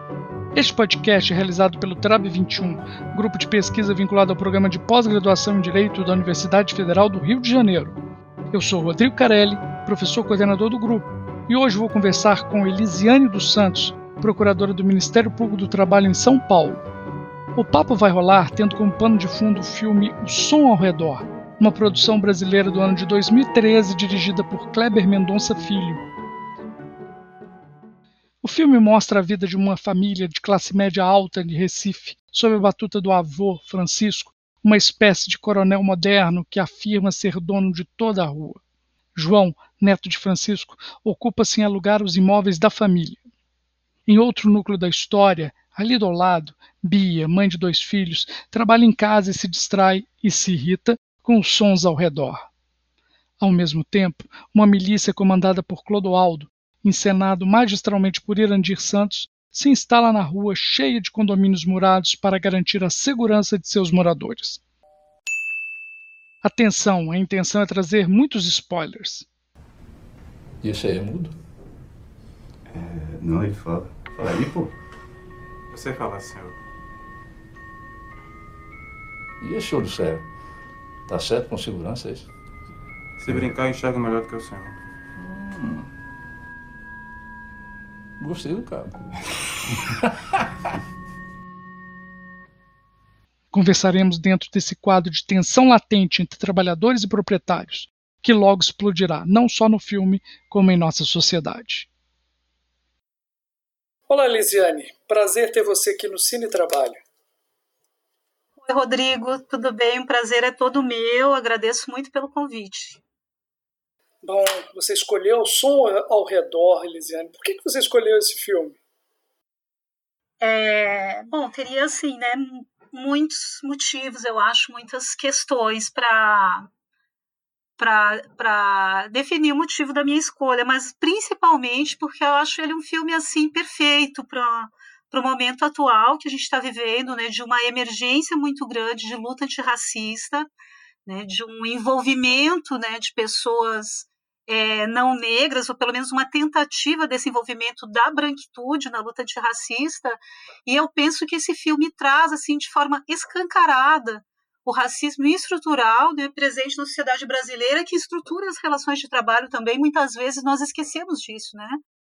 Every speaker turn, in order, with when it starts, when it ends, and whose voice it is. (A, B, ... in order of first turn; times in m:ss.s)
0:00.5-0:08.0 A
0:08.5-0:16.8 A
0:17.6-0:26.0 A
0:28.4-0:38.6 A
0:39.1-0:43.2 A
0:44.1-0:52.5 A
0:53.4-1:04.6 A
1:06.4-1:09.3 A
1:10.6-1:11.4 B
1:12.7-1:14.7 C
1:15.7-1:16.6 D
1:19.4-1:20.3 B
1:21.0-1:22.3 B
1:23.2-1:24.8 D
1:25.2-1:25.9 B
1:28.2-1:29.2 B
1:33.5-1:41.9 A
1:44.1-1:47.0 A
1:48.6-1:53.0 E
1:54.2-1:58.8 A
2:00.4-2:06.7 E
2:07.8-2:20.5 E
2:21.1-2:41.8 E